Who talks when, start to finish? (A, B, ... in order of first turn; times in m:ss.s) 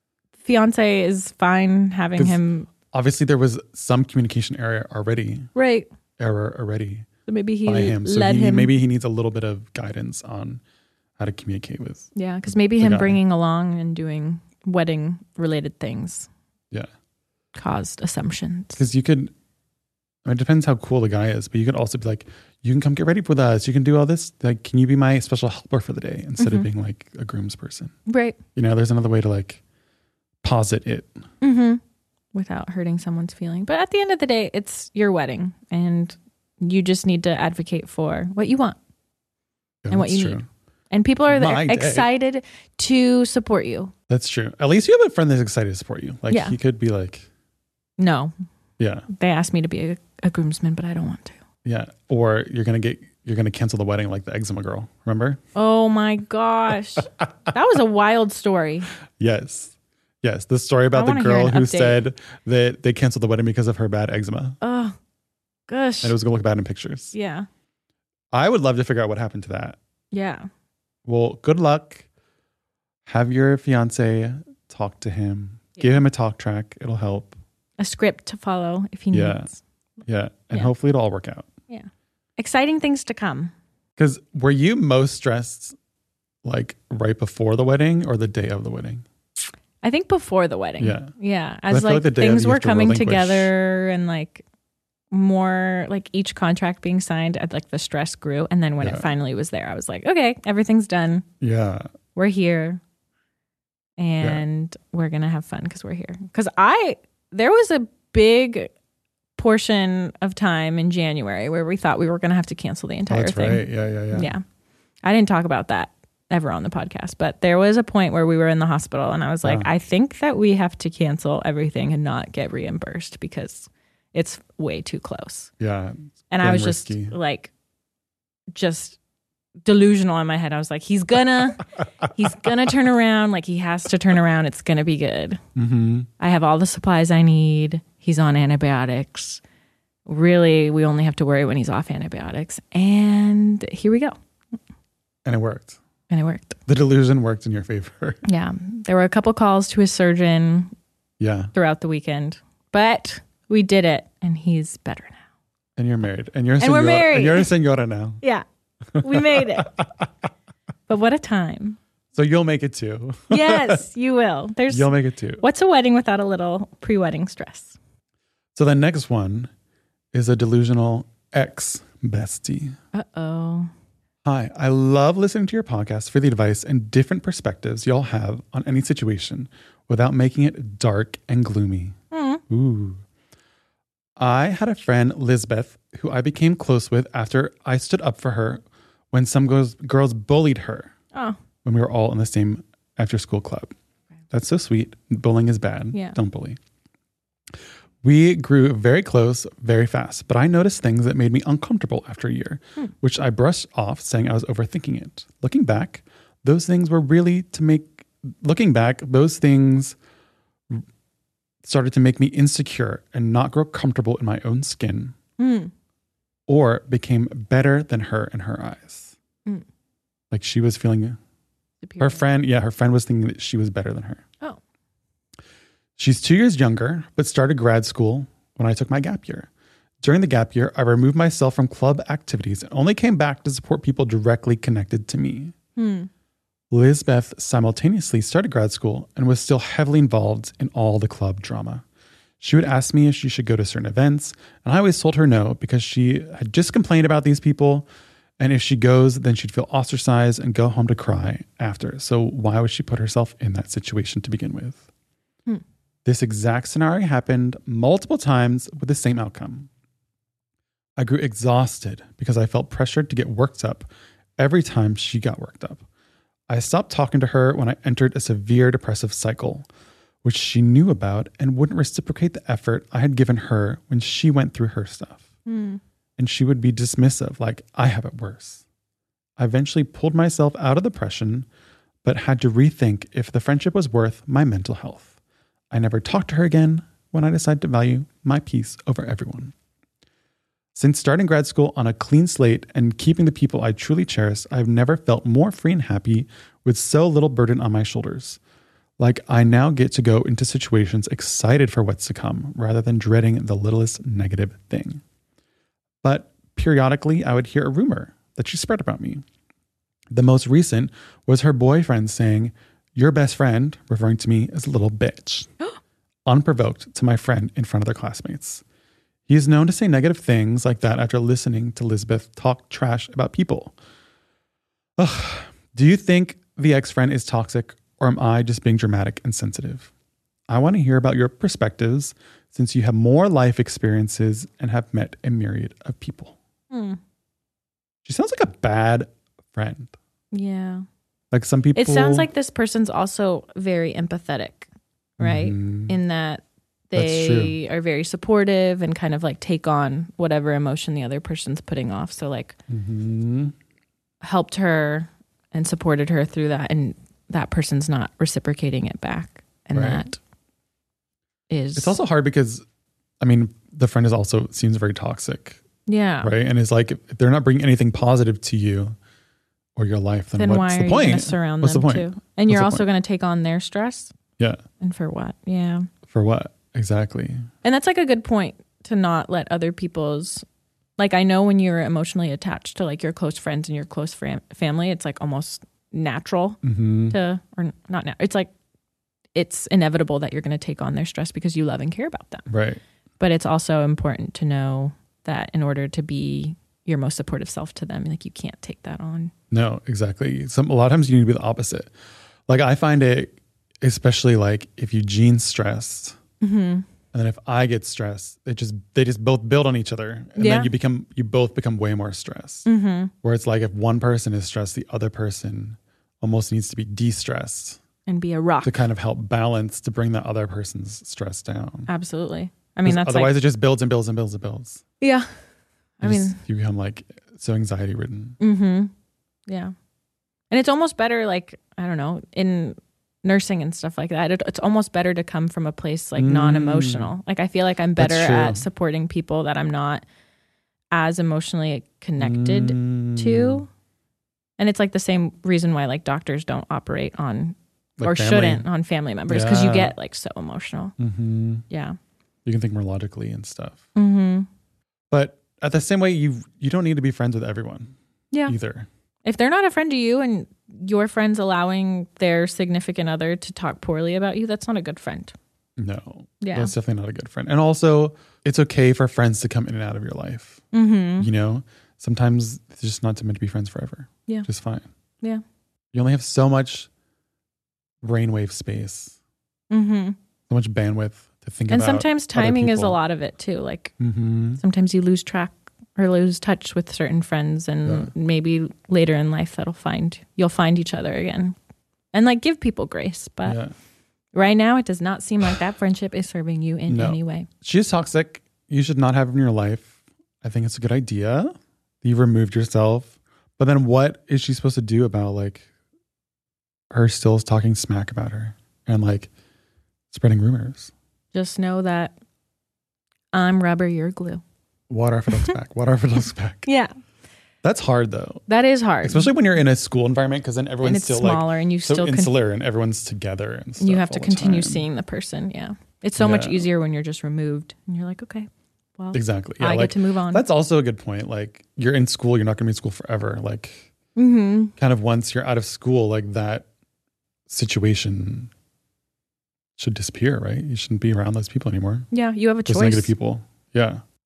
0:00.4-0:02.7 A
0:02.2-0:05.5 B
0:05.6-0:05.9 A
0:06.2-0:07.1 B
0:07.3-0:08.7 A
0:07.6-0:10.6 B
0:11.2-0:12.1 B
0:12.1-0:16.3 A
0:12.8-0:13.2 B
0:17.6-0:18.8 A
0:18.8-0:19.3 B
0:20.2-0:27.9 B
0:26.4-0:26.7 A
0:28.1-0:28.4 A
0:28.6-0:29.6 B
0:30.4-0:31.2 B
0:31.4-0:31.8 A
0:32.3-0:38.8 A
0:39.8-0:40.5 B
0:39.9-0:43.9 A
0:41.3-0:42.1 B
0:44.1-0:47.3 B
0:46.3-0:46.6 A
0:48.0-0:48.3 A
0:48.8-0:49.1 B
0:49.1-0:51.4 A
0:51.6-0:55.4 B
0:55.6-0:58.9 A
0:59.2-1:04.6 B
1:00.9-1:02.0 A
1:04.6-1:05.0 A
1:05.7-1:06.2 A
1:06.0-1:07.1 B
1:07.1-1:07.5 A
1:08.3-1:09.8 B
1:10.1-1:10.5 A
1:11.0-1:12.1 B
1:13.1-1:17.4 B
1:17.8-1:19.6 A
1:19.1-1:19.5 B
1:20.1-1:21.5 B
1:21.7-1:23.5 A
1:24.0-1:25.7 B
1:26.4-1:29.0 B
1:29.8-1:34.4 A
1:30.8-1:31.1 B
1:31.7-1:33.5 B
1:35.1-1:41.2 A
1:38.8-1:39.1 B
1:41.4-1:41.9 B
1:42.1-1:42.8 A
1:44.0-1:48.7 A
1:49.4-1:54.4 A
1:53.1-1:54.3 B
1:55.0-2:05.5 A
1:59.4-1:59.7 B
2:05.6-2:07.1 B
2:06.3-2:07.5 A
2:08.5-2:09.0 A
2:09.6-2:15.4 A
2:15.6-2:16.1 B
2:16.2-2:19.4 A
2:20.1-2:24.2 A
2:25.2-2:25.8 B
2:26.1-2:26.6 A
2:26.7-2:28.2 B
2:28.2-2:30.7 A
2:31.2-2:31.5 B
2:31.5-2:35.2 A
2:35.8-2:38.2 B
2:36.6-2:37.5 A
2:38.9-2:40.1 B
2:39.0-2:39.7 A
2:40.9-2:41.8 A
2:42.1-2:43.8 B
2:43.3-2:47.8 A
2:44.7-2:45.4 B
2:48.6-2:49.5 B
2:50.1-2:52.8 B
2:52.9-2:53.7 A
2:54.2-3:02.0 B
3:02.1-3:02.4 A
3:02.5-3:03.0 B
3:04.2-3:10.9 B
3:11.6-3:13.7 B
3:14.3-3:16.6 B
3:18.0-3:30.0 B
3:31.6-3:35.2 B
3:35.4-3:35.7 A
3:36.5-3:39.1 B
3:40.3-3:41.2 B
3:41.8-3:42.2 A
3:42.0-3:44.2 B
3:46.0-3:49.5 B
3:50.0-3:55.5 B
3:55.8-3:56.1 A
3:56.7-4:01.8 B
4:02.4-4:07.9 B
4:08.4-4:14.9 B
4:16.0-4:19.7 B
4:21.0-4:25.8 B
4:26.5-4:29.7 B
4:30.2-4:35.3 B
4:35.4-4:35.8 A
4:36.2-4:38.6 B
4:39.4-4:41.5 B
4:42.0-4:45.1 B
4:45.7-4:49.5 B
4:50.7-4:58.4 B
4:59.0-5:05.0 B
5:06.0-5:09.2 B
5:10.1-5:15.5 B
5:16.2-5:18.6 B
5:19.3-5:23.8 B
5:25.0-5:29.9 B
5:30.5-5:36.4 B
5:36.7-5:37.0 A
5:38.0-5:39.9 B
5:40.3-5:40.8 A
5:41.3-5:42.3 B
5:41.8-5:44.7 A
5:45.2-5:46.0 B
5:45.2-5:52.6 A
5:46.9-5:47.6 B
5:52.7-5:53.6 B
5:54.2-6:00.2 A
5:59.7-6:00.1 B
6:01.5-6:02.0 A
6:01.8-6:02.6 B
6:03.2-6:05.6 B
6:05.9-6:06.3 A
6:06.2-6:09.0 B
6:09.8-6:12.9 B
6:10.4-6:14.1 A
6:14.8-6:15.9 A
6:16.1-6:17.5 B
6:17.6-6:20.4 A
6:21.0-6:28.5 A
6:26.6-6:27.2 B
6:29.4-6:32.5 A
6:32.5-6:32.8 B
6:33.2-6:39.3 A
6:39.5-6:41.9 B
6:42.5-6:46.2 B
6:46.4-6:46.9 A
6:47.1-6:52.7 B
6:50.4-6:50.7 A
6:52.6-6:53.1 A
6:53.2-6:57.8 B
6:58.1-6:58.8 A
6:58.6-7:01.9 B
7:01.9-7:03.4 A
7:02.8-7:04.8 B
7:05.0-7:05.3 A
7:06.0-7:06.4 A
7:06.0-7:08.4 B
7:08.4-7:08.9 A
7:09.5-7:09.7 A
7:10.5-7:20.0 A
7:16.2-7:17.1 B
7:18.0-7:18.6 B
7:20.9-7:23.7 A
7:22.2-7:23.6 B
7:24.6-7:30.9 A
7:28.0-7:28.6 B
7:29.3-7:29.9 B
7:31.0-7:31.6 B
7:31.7-7:32.0 A
7:32.4-7:33.8 B
7:33.9-7:34.5 A
7:35.1-7:37.9 B
7:38.4-7:38.9 B
7:39.2-7:45.3 A
7:45.8-7:50.6 B
7:46.4-7:46.7 A
7:50.7-7:51.3 A
7:51.2-7:54.9 B
7:55.9-7:56.9 B
7:58.0-7:59.2 B
7:59.7-8:00.2 A
8:00.5-8:03.0 B
8:01.7-8:03.9 A
8:04.0-8:04.6 B
8:04.6-8:11.6 A
8:07.8-8:08.1 B
8:12.1-8:13.6 A
8:13.4-8:13.7 B
8:14.3-8:17.5 A
8:16.9-8:25.7 B
8:26.9-8:29.3 B
8:30.1-8:30.9 B
8:31.3-8:32.1 A
8:33.3-8:34.4 A
8:34.9-8:36.7 B
8:36.6-8:36.9 A
8:37.6-8:38.4 B
8:38.5-8:39.3 A
8:39.0-8:44.8 B
8:40.8-8:42.3 A
8:43.8-8:50.4 A
8:46.2-8:46.7 B
8:49.1-8:53.9 B
8:54.2-8:54.7 A
8:54.8-8:56.6 B
8:57.5-8:58.5 B
8:59.8-9:02.1 B
9:02.1-9:03.1 A
9:02.7-9:04.0 B